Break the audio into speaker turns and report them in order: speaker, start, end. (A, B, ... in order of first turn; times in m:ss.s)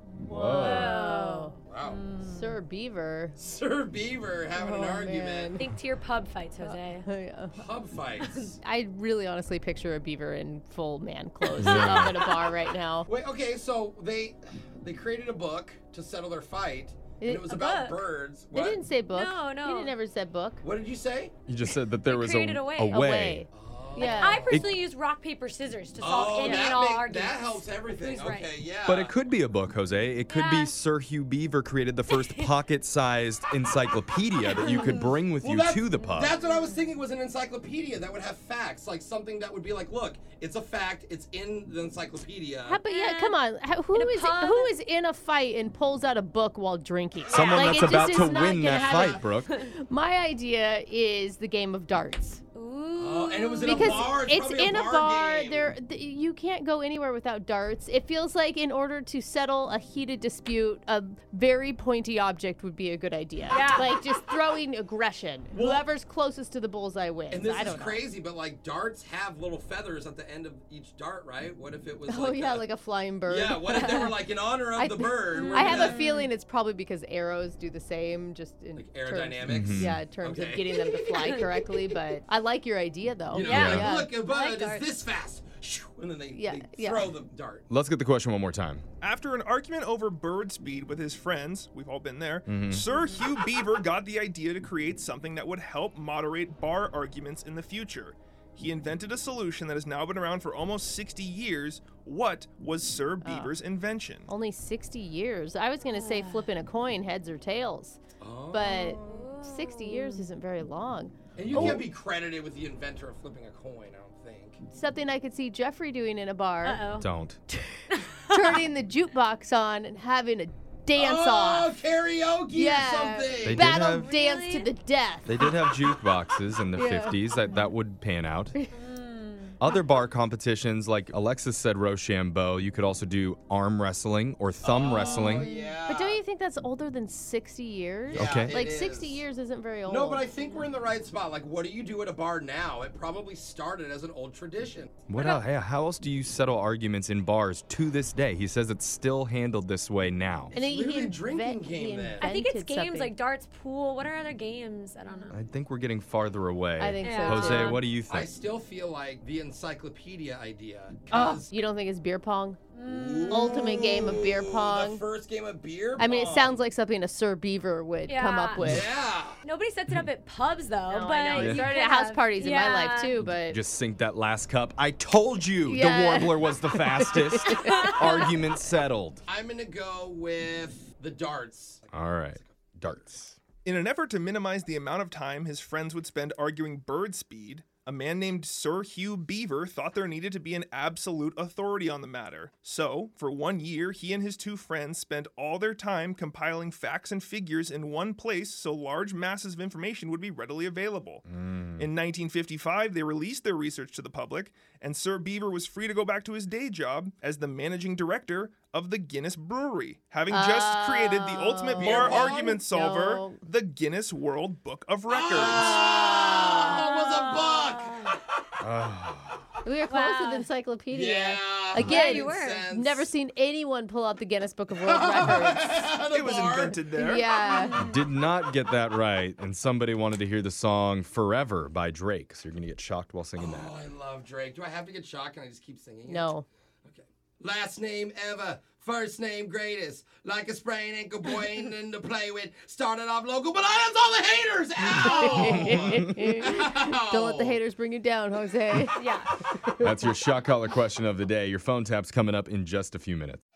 0:00.2-0:00.9 A
0:00.3-0:01.6 B
0:00.5-0:02.6 C
0:01.6-0:02.0 D
0:02.2-0:03.4 B
0:03.4-0:05.6 D
0:04.5-0:05.7 B
0:05.6-0:07.0 C
0:06.6-0:07.7 B
0:07.5-0:08.6 D
0:08.6-0:13.1 B
0:11.6-0:12.2 A
0:11.6-0:12.2 C
0:13.0-0:18.8 D
0:17.2-0:17.5 B
0:17.5-0:18.0 C
0:18.5-0:20.6 B
0:19.1-0:19.9 C
0:20.6-0:21.3 D
0:21.5-0:23.4 A
0:21.6-0:23.0 C
0:22.9-0:24.5 B
0:23.5-0:24.7 D
0:24.0-0:28.5 C
0:26.0-0:29.2 D
0:26.4-0:26.7 B
0:28.8-0:36.3 A
0:30.3-0:30.7 C
0:32.1-0:32.5 C
0:34.4-0:35.2 C
0:35.1-0:42.8 D
0:36.3-0:36.7 C
0:42.6-0:52.4 B
0:42.8-0:43.4 C
0:43.9-0:44.7 C
0:47.3-0:49.3 D
0:47.3-0:49.5 A
0:52.5-0:54.1 C
0:52.9-0:55.8 D
0:53.6-1:08.0 B
1:03.5-1:03.9 C
1:05.5-1:05.8 D
1:07.3-1:12.6 D
1:12.1-1:24.2 B
1:13.2-1:16.0 D
1:15.4-1:16.3 C
1:18.7-1:20.8 D
1:19.4-1:20.0 A
1:23.3-1:27.7 D
1:23.4-1:24.9 C
1:23.5-1:23.9 A
1:26.3-1:27.2 B
1:27.7-1:28.8 A
1:29.0-1:44.3 E
1:32.5-1:32.8 A
1:43.2-1:43.6 B
1:44.3-1:48.0 B
1:45.9-1:46.4 C
1:48.2-1:49.3 D
1:48.5-1:51.2 B
1:49.0-1:50.3 C
1:51.4-1:54.6 D
1:51.5-1:51.8 A
1:54.7-1:56.8 B
1:56.6-1:57.0 C
1:57.0-1:57.4 A
1:57.5-2:01.7 B
1:57.9-1:58.6 C
2:00.9-2:03.7 D
2:02.5-2:05.6 B
2:03.4-2:04.1 A
2:03.9-2:04.7 C
2:05.2-2:08.5 A
2:06.7-2:07.6 B
2:08.7-2:09.6 C
2:09.6-2:15.5 A
2:14.6-2:16.2 D
2:15.6-2:20.3 B
2:18.0-2:19.2 D
2:18.1-2:18.6 A
2:19.8-2:24.9 D
2:25.1-2:30.5 A
2:25.1-2:25.4 C
2:30.5-2:32.3 D
2:30.5-2:33.1 B
2:32.2-2:35.3 C
2:35.3-2:38.3 A
2:36.8-2:37.8 B
2:37.0-2:37.8 C
2:38.1-2:41.5 D
2:41.1-2:42.6 B
2:42.7-2:44.0 C
2:42.8-2:46.6 D
2:43.3-2:45.0 B
2:46.0-2:48.9 B
2:48.1-2:48.6 C
2:48.6-2:49.4 D
2:49.4-2:53.2 C
2:50.9-2:53.6 B
2:51.3-2:51.6 A
2:53.2-2:59.2 A
2:55.6-2:58.3 B
2:59.3-3:02.6 D
3:01.9-3:03.4 A
3:03.6-3:21.2 E
3:21.4-3:21.8 A
3:21.8-3:35.8 E
3:30.3-3:33.4 B
3:31.7-3:32.6 D
3:35.1-3:38.2 D
3:35.4-3:36.8 B
3:36.5-3:38.2 C
3:38.6-3:39.4 A
3:39.6-3:45.9 B
3:39.9-3:40.5 C
3:40.9-3:43.1 D
3:41.7-3:42.7 C
3:44.7-3:46.8 D
3:46.0-3:47.3 E
3:46.8-3:47.8 B
3:47.2-3:48.0 C
3:47.7-3:53.7 A
3:53.4-4:07.6 D
3:56.1-3:56.4 B
4:05.0-4:09.8 B
4:05.3-4:06.1 A
4:08.9-4:09.3 C
4:09.8-4:13.4 A